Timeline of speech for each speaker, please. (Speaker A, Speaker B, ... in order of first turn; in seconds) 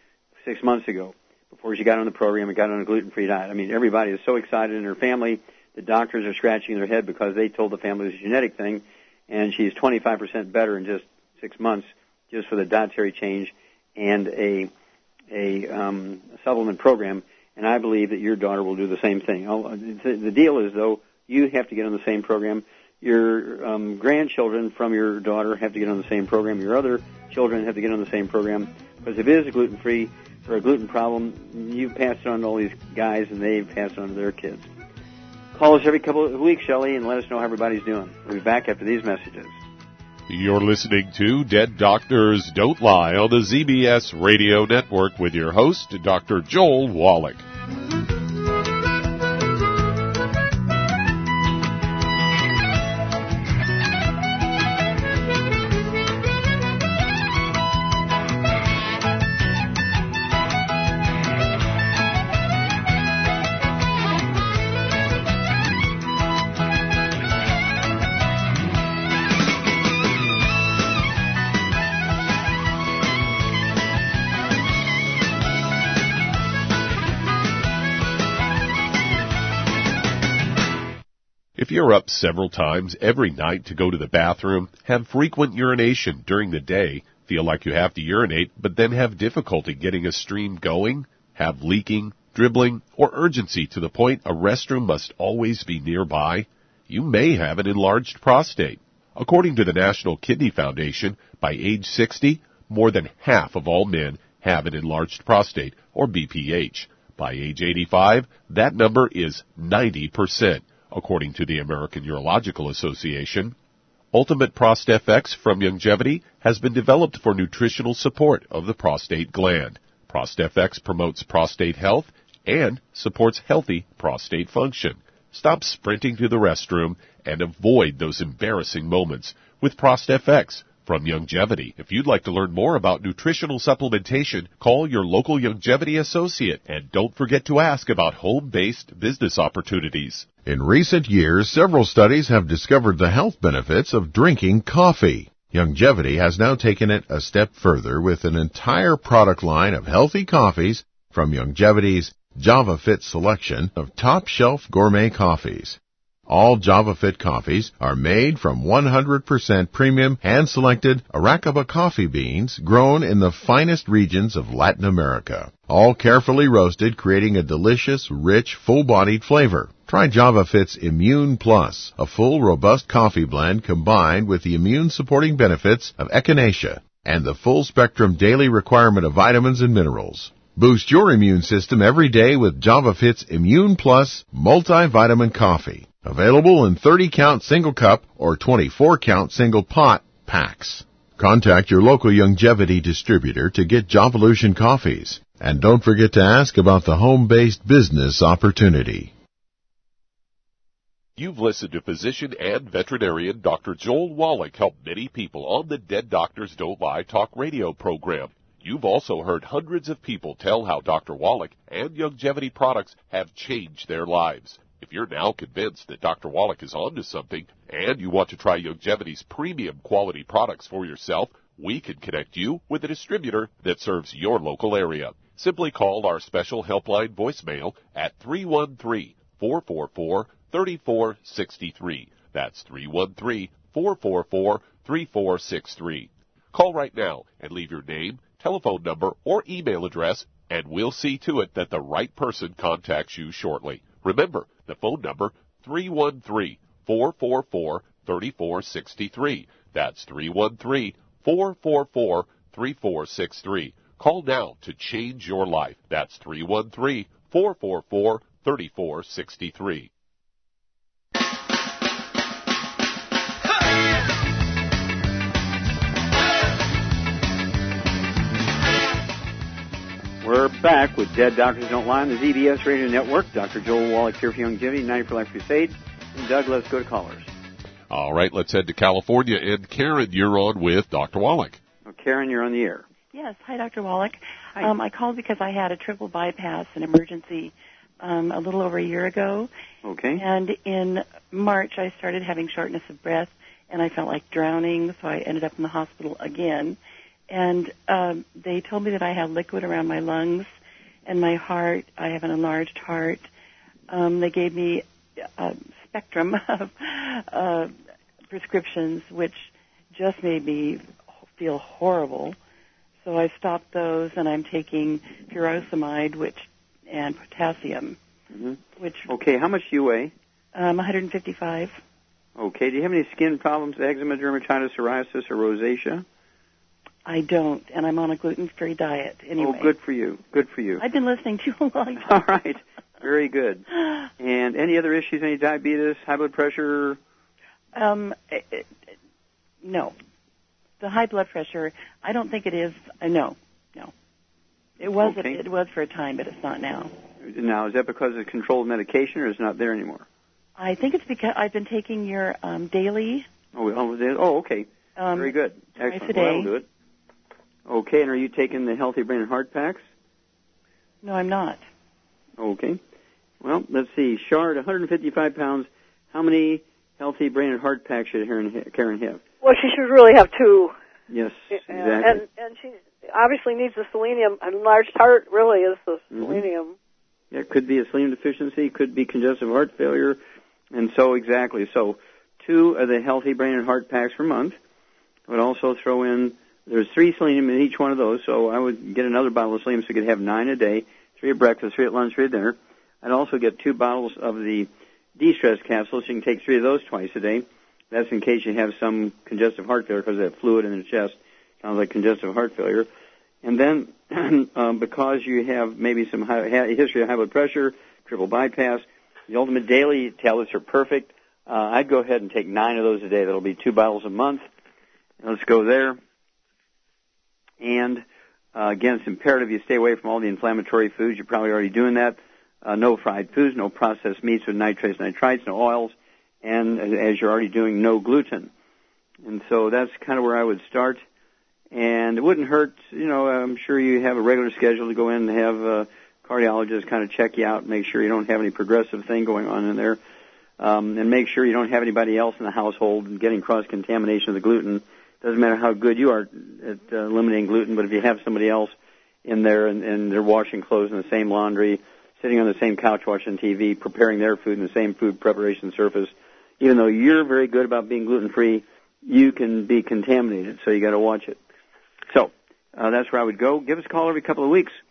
Speaker A: 0.4-14.7, 15.3-34.7, 35.5-39.6, 270.2-277.3, 281.9-282.9, 289.8-290.2, 318.3-320.1, 322.4-326.0, 329.4-330.8, 332.0-333.7, 334.2-337.0, 344.9-345.4, 347.2-350.1, 353.6-356.6, 357.7-359.8, 362.4-362.8, 363.4-369.2, 371.1-372.2, 376.1-376.4, 377.3-380.2, 380.7-384.6, 385.3-402.9, 403.4-414.4, 415.2-416.0, 417.6-418.0, 418.6-428.5, 429.2-431.0, 431.7-440.0, 440.6-448.7, 449.2-461.4, 462.1-464.8
Speaker B: 40.3-47.5, 81.6-113.5, 114.1-140.3, 201.2-259.9, 277.9-281.6
Speaker C: 140.4-199.1
Speaker D: 283.1-289.5, 290.2-296.8, 297.3-300.5, 301.1-303.3, 303.9-307.7, 308.3-312.4, 313.0-318.0, 318.8-319.1, 320.6-321.8, 327.1-329.7, 330.8-332.2, 337.8-338.7, 339.6-339.9, 340.8-343.9, 344.8-346.9, 350.6-353.3, 355.0-356.5, 361.0-361.6
Speaker E: 369.4-370.8, 371.5-376.8